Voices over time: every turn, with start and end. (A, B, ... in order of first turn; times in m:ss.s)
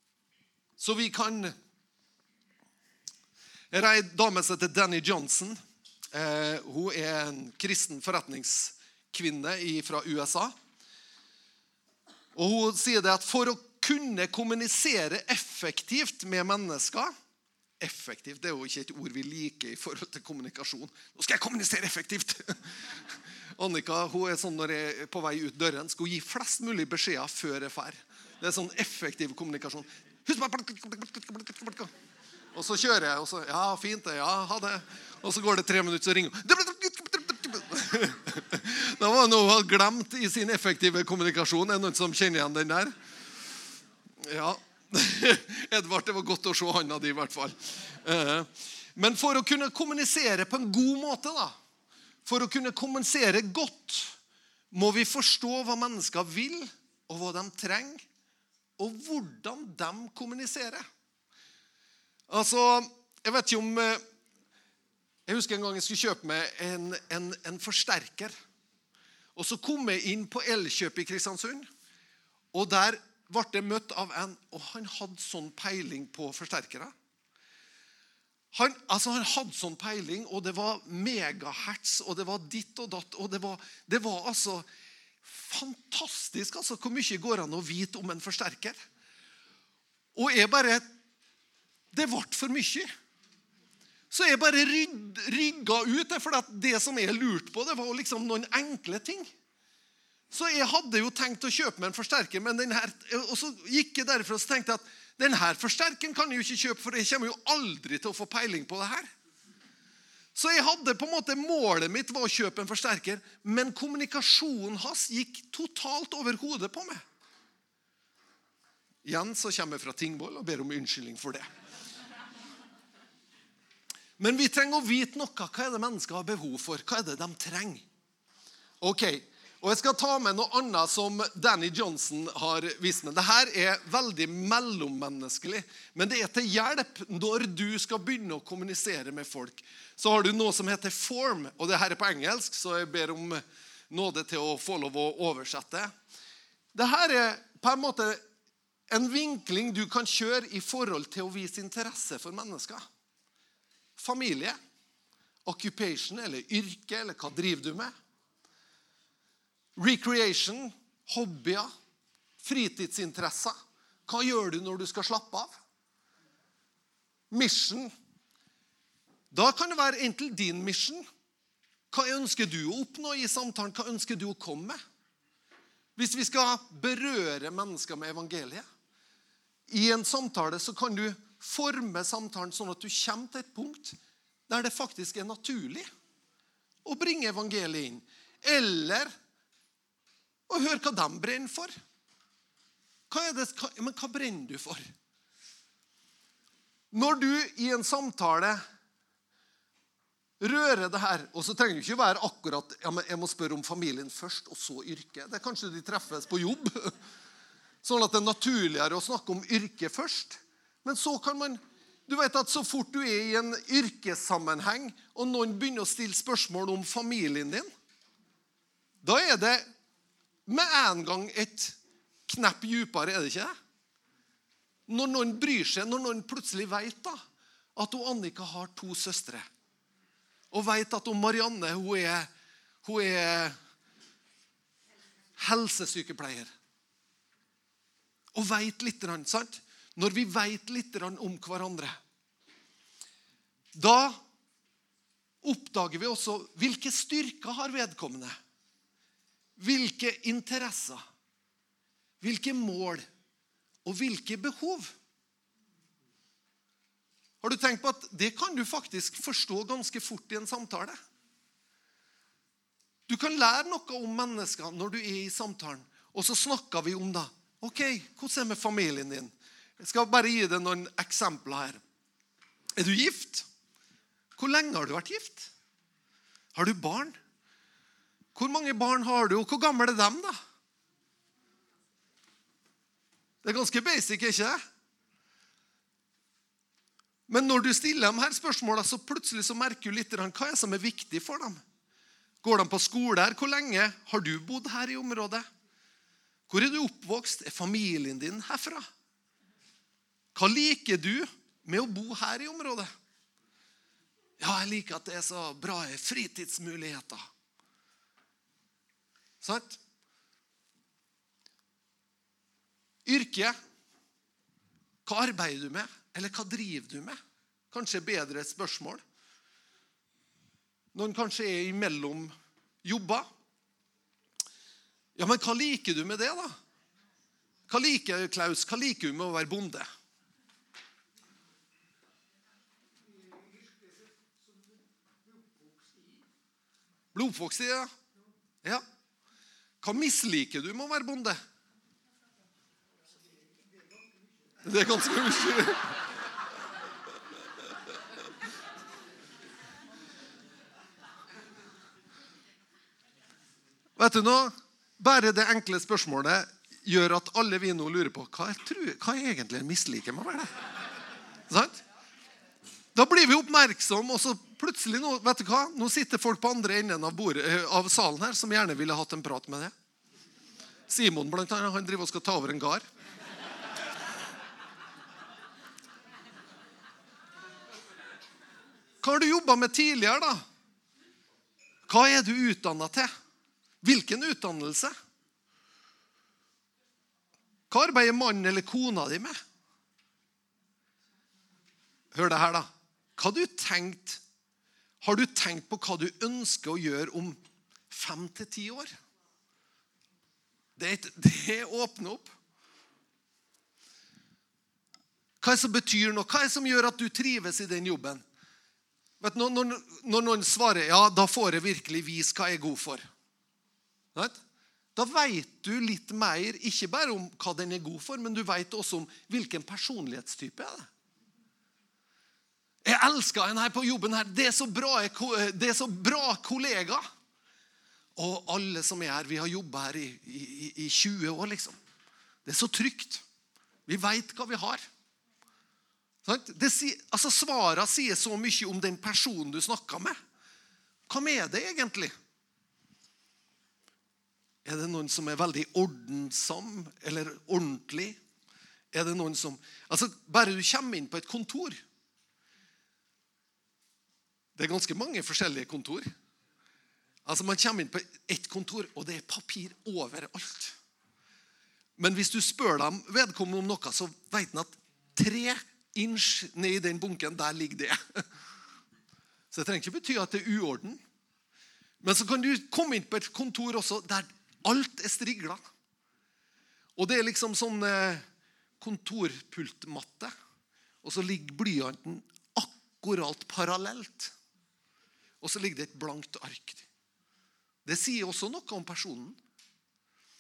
0:00.8-0:01.5 A
0:03.7-0:05.6 A
0:06.1-0:10.5 A
0:12.4-0:17.1 A
0:17.8-0:31.9 A
0:32.5-0:42.9 A
0:44.2-0:51.6 A
0:52.2-0:54.2 A
0:54.7-0:58.0 A
0:58.8-1:00.8 A
1:02.3-1:04.0 A
1:05.3-1:08.3 A
1:09.4-1:11.7 A
1:12.5-1:16.9 A
1:18.5-1:24.7 A
1:25.2-1:28.8 A
1:30.2-1:30.9 A
1:31.9-1:32.9 A
1:34.1-1:39.3 A
1:40.3-1:49.1 A
1:50.4-1:57.0 A
1:59.0-2:01.5 A
2:04.2-2:07.9 A
2:08.8-2:25.9 A
2:26.7-2:28.2 A
2:28.9-2:32.8 A
2:34.0-2:34.6 A
2:35.4-2:37.9 A
2:39.8-2:41.7 A
2:42.4-2:43.6 A
2:44.1-2:45.5 A
2:47.3-2:47.9 A
2:49.3-2:51.0 A
2:51.9-2:54.8 A
2:56.0-2:58.6 A
2:59.7-3:04.0 A
3:04.5-3:05.9 A
3:06.8-3:09.1 A
3:10.5-3:11.7 A
3:13.1-3:14.8 A
3:16.9-3:18.6 A
3:20.4-3:26.9 A
3:27.8-3:37.7 A
3:39.0-3:39.6 A
3:40.5-3:41.8 A
3:42.3-3:43.5 A
3:44.9-3:47.2 A
3:47.8-3:49.5 A
3:50.5-3:52.3 A
3:52.8-3:53.6 A
3:55.4-3:56.5 A
3:58.3-4:02.0 A
4:03.8-4:04.2 A
4:05.4-4:08.4 A
4:09.6-4:11.0 A
4:12.2-4:13.0 A
4:13.8-4:14.9 A
4:17.4-4:21.0 A
4:23.1-4:31.8 A
4:32.8-4:33.5 A
4:34.4-4:35.5 A
4:36.6-4:37.2 A
4:38.4-4:40.4 A
4:43.4-4:44.6 A
4:47.3-4:51.6 A
4:52.4-4:55.5 A
4:56.5-4:58.9 A
5:00.4-5:02.9 A
5:04.4-5:07.3 A
5:09.4-5:09.8 A
5:13.0-5:13.6 A
5:15.0-5:17.2 A
5:17.7-5:19.0 A
5:20.9-5:23.3 A
5:25.2-5:26.5 A
5:27.7-5:29.9 A
5:37.1-5:37.9 A
5:39.8-5:41.4 A
5:44.6-5:46.0 A
5:54.0-6:00.5 A
6:01.5-6:01.8 A
6:03.0-6:09.7 A
6:10.9-6:12.8 A
6:19.0-6:20.4 A
6:21.9-6:23.1 A
6:23.8-6:24.9 A
6:27.7-6:29.4 A
6:32.1-6:34.2 A
6:35.0-6:37.4 A
6:37.9-6:38.9 A
6:40.8-6:42.3 A
6:45.4-6:48.2 A
6:49.2-6:53.0 A
6:55.0-7:00.9 A
7:02.8-7:07.0 A
7:08.2-7:11.8 A
7:12.4-7:13.2 A
7:13.9-7:14.8 A
7:16.2-7:20.2 A
7:21.1-7:22.1 A
7:24.6-7:28.2 A
7:28.9-7:31.8 A
7:34.6-7:36.1 A
7:37.2-7:40.8 A
7:42.0-7:48.2 A
7:49.5-7:51.0 A
7:52.0-7:55.6 A
7:57.0-7:58.2 A
7:58.8-8:00.3 A
8:01.0-8:04.3 A
8:05.4-8:06.9 A
8:07.8-8:09.4 A